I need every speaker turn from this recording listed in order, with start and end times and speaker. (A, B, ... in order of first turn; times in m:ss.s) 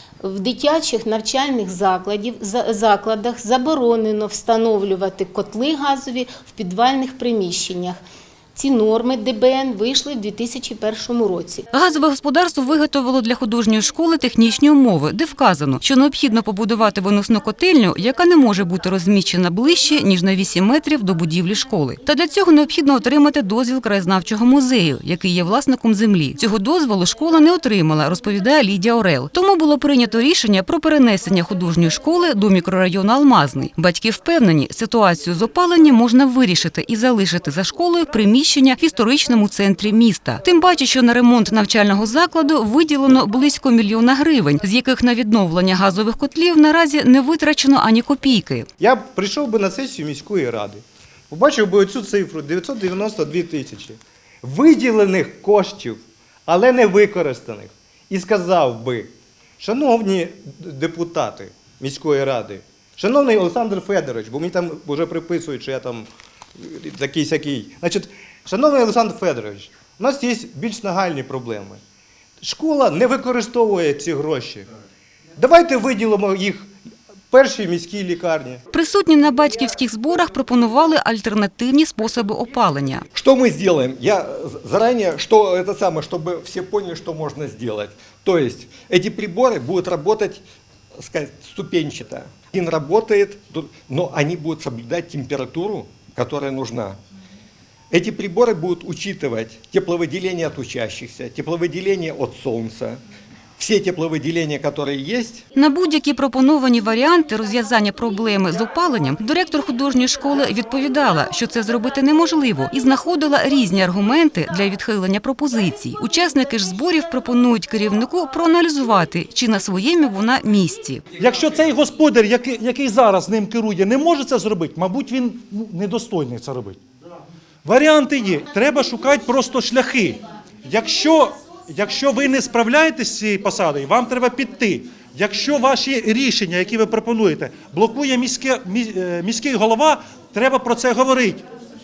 0:00.3-0:08.0 A
0:08.5-0:11.7 A
0:11.7-0:48.7 B
0:48.8-1:11.8 C
1:12.4-1:14.7 C
1:15.4-1:16.7 C
1:17.3-1:18.6 C
1:18.7-1:23.0 B
1:23.1-1:30.4 D
1:31.0-1:37.0 D
1:37.9-1:43.0 D
1:43.6-1:45.4 D
1:45.5-2:01.0 B
2:01.2-2:06.8 E
2:07.6-2:21.4 E